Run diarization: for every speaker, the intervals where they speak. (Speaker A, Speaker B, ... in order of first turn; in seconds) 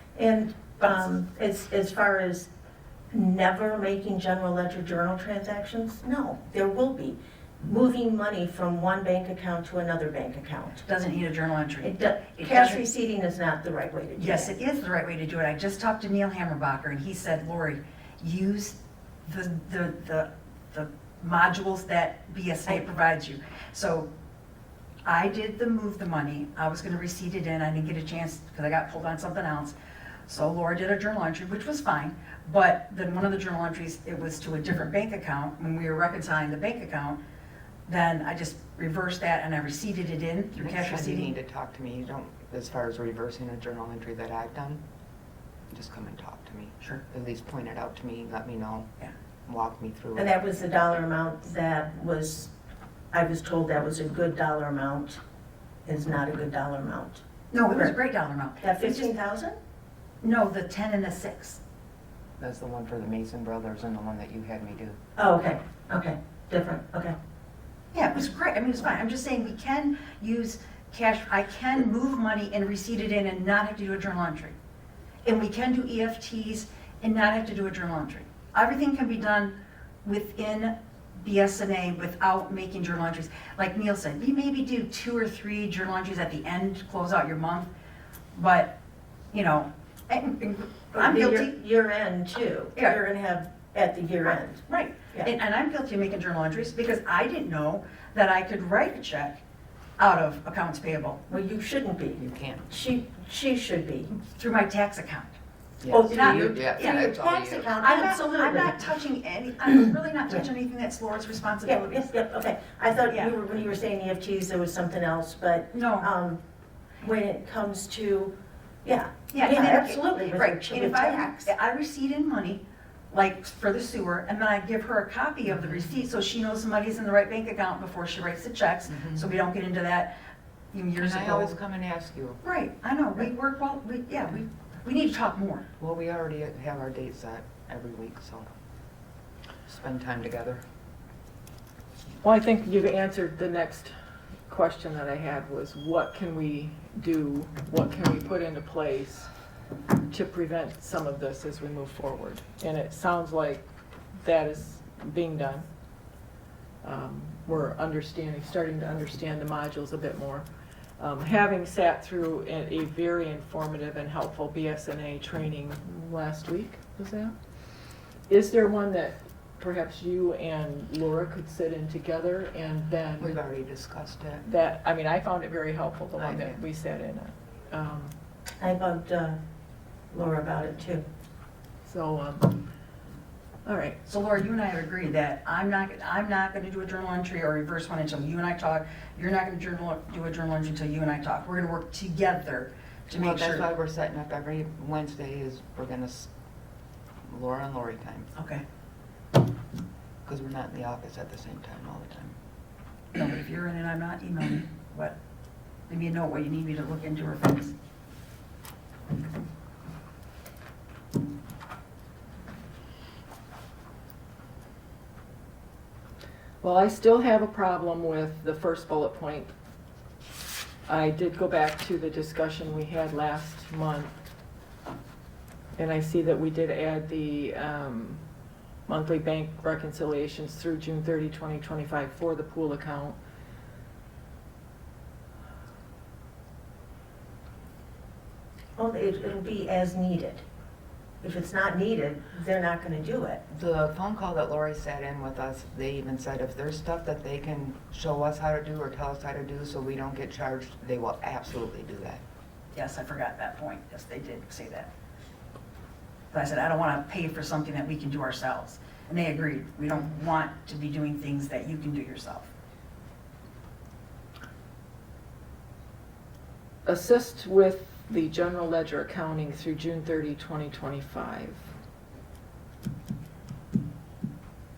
Speaker A: 0.1-2.5, 3.1-10.8, 11.8-14.5, 50.2-52.5, 53.1-55.2, 55.9-58.0, 58.6-59.6, 65.2-67.2, 90.9-95.3, 101.3-104.1, 105.9-108.8, 111.7-116.4, 117.0-121.5, 178.6-179.4, 180.1-181.1, 238.8-240.4, 241.2-243.4
Speaker B: 0.8-1.1, 10.8-12.8, 14.2-24.1, 25.1-29.8, 30.3-37.2, 37.9-41.3, 57.5-59.1, 60.2-61.6, 67.9-74.5, 75.2-87.7, 88.3-88.8, 89.3-91.5, 94.7-99.4, 100.0-101.2, 104.1-105.4, 106.1-112.1, 115.7-116.1, 119.3-130.1, 130.7-131.6, 132.4-135.7, 184.1-193.7, 198.3-198.6, 203.1-205.2, 205.9-207.7, 252.7-254.9, 256.3-262.5
Speaker C: 40.6-44.8, 45.7-48.9, 49.5-50.3, 62.4-65.0, 102.2-102.7, 105.8-107.7, 131.0-132.4, 135.8-138.5, 139.7-140.6, 173.2-174.4, 176.2-176.6, 193.1-196.3, 197.3-198.3, 200.2-202.4, 243.5-252.2
Speaker D: 142.2-143.9, 144.5-149.3, 150.1-153.7, 154.2-155.7, 156.8-160.5, 161.0-167.3, 168.3-173.4, 174.4-178.2, 181.8-182.6, 183.7-184.0, 216.6-219.5, 220.9-224.2, 225.8-228.2, 228.9-233.2, 266.9-271.6